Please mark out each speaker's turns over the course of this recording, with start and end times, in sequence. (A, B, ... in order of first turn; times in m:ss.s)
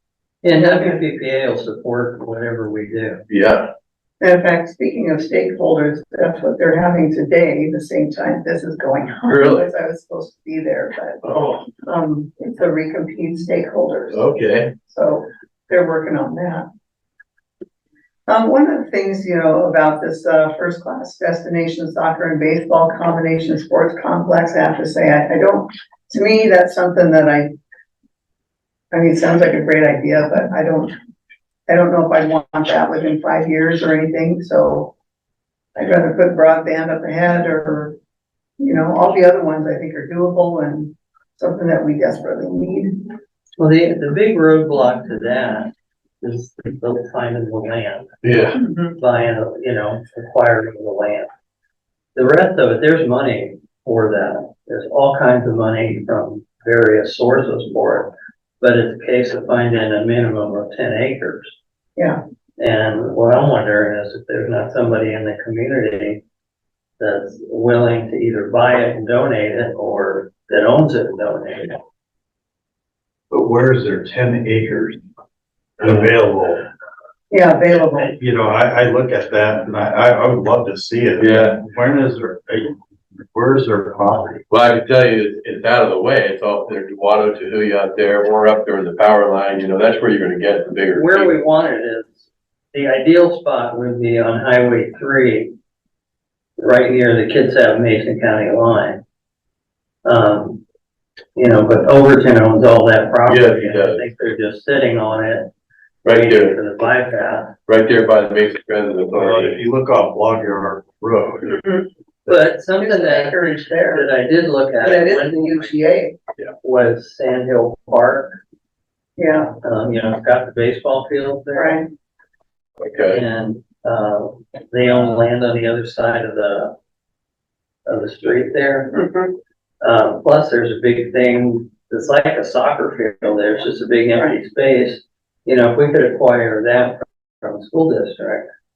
0:00.4-0:03.2 A
0:00.5-0:01.0 B
0:03.3-0:03.7 C
0:04.2-0:11.2 B
0:09.3-0:09.7 C
0:11.2-0:11.7 C
0:11.8-0:14.3 B
0:14.1-0:14.7 C
0:14.9-0:16.7 B
0:18.3-0:27.5 B
0:28.9-0:31.0 B
0:31.7-0:34.9 B
0:35.8-0:38.0 B
0:38.6-0:43.2 B
0:43.6-0:48.2 A
0:48.2-0:48.6 C
0:48.6-0:48.9 B
0:48.9-0:51.3 A
0:52.2-1:01.6 A
1:02.0-1:02.2 B
1:02.6-1:06.2 A
1:07.0-1:11.8 A
1:13.3-1:15.0 D
1:15.8-1:16.7 D
1:17.3-1:18.2 B
1:18.2-1:22.8 D
1:21.2-1:21.6 C
1:23.3-1:24.4 D
1:24.5-1:31.4 C
1:30.9-1:35.5 A
1:36.6-1:39.0 A
1:40.0-1:40.6 A
1:41.4-1:45.5 A
1:43.3-1:44.1 C
1:46.0-1:46.6 C
1:46.1-1:47.5 A
1:47.7-1:49.6 C
1:49.1-1:51.7 D
1:52.3-1:55.7 A
1:52.8-1:54.1 B
1:54.8-1:56.2 B
1:56.6-1:58.4 A
1:59.2-1:59.5 B
1:59.5-2:01.8 A
2:01.6-2:01.8 B
2:02.8-2:03.2 C
2:03.1-2:06.7 A
2:07.9-2:08.9 A
2:08.9-2:09.4 B
2:09.8-2:18.5 A